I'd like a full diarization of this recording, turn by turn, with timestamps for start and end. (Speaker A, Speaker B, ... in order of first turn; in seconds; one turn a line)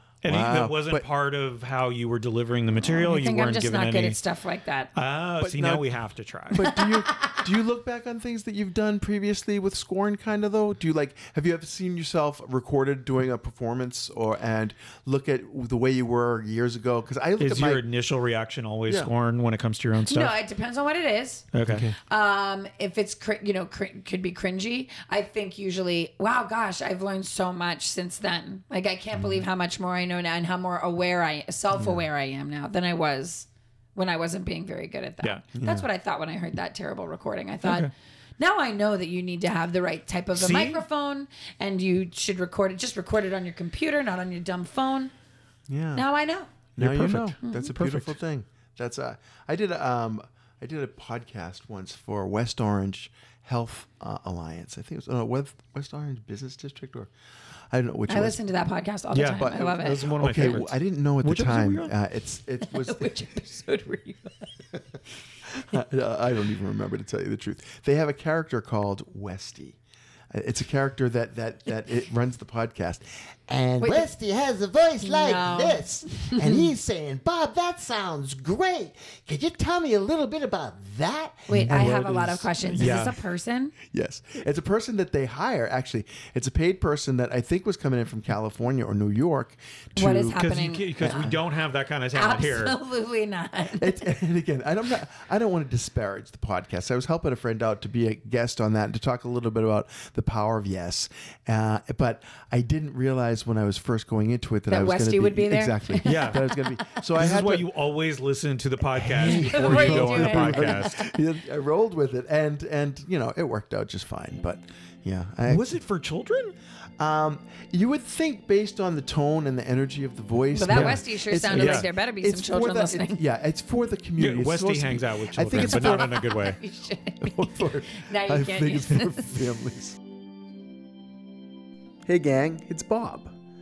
Speaker A: 0.2-4.2
Speaker B: 0.2-1.1
Speaker C: 2.8-4.9
Speaker A: 5.0-6.7
Speaker B: 5.4-5.9
Speaker B: 6.5-17.9
Speaker A: 17.4-20.4
Speaker C: 20.0-21.5
Speaker A: 21.5-21.9
Speaker B: 21.7-21.9
Speaker C: 22.0-45.1
Speaker B: 29.1-29.4
Speaker B: 31.7-32.0
Speaker B: 35.5-35.9
Speaker A: 37.6-37.9
Speaker A: 40.4-40.8
Speaker B: 45.7-46.1
Speaker C: 45.9-46.5
Speaker B: 46.8-57.1
Speaker A: 46.8-48.2
Speaker C: 47.4-47.7
Speaker B: 57.7-58.4
Speaker C: 58.1-60.1
Speaker A: 59.1-61.9
Speaker B: 59.4-63.1
Speaker C: 62.6-64.5
Speaker B: 65.5-69.8
Speaker B: 70.3-74.0
Speaker C: 73.8-74.1
Speaker D: 73.9-81.8
Speaker C: 75.0-76.7
Speaker B: 81.5-82.9
Speaker C: 81.5-83.7
Speaker A: 82.6-83.2
Speaker B: 83.9-90.5
Speaker C: 90.0-91.4
Speaker A: 90.3-92.8
Speaker B: 91.0-91.4
Speaker C: 92.1-94.1
Speaker B: 93.7-107.7
Speaker C: 104.7-106.7
Speaker A: 106.0-106.4
Speaker A: 107.2-111.0
Speaker B: 109.0-115.7
Speaker C: 109.2-111.0
Speaker A: 115.5-116.5
Speaker B: 117.0-126.2
Speaker C: 120.5-123.2
Speaker A: 120.7-121.9
Speaker A: 124.2-126.6
Speaker C: 125.5-129.5
Speaker B: 127.2-130.0
Speaker B: 132.1-133.3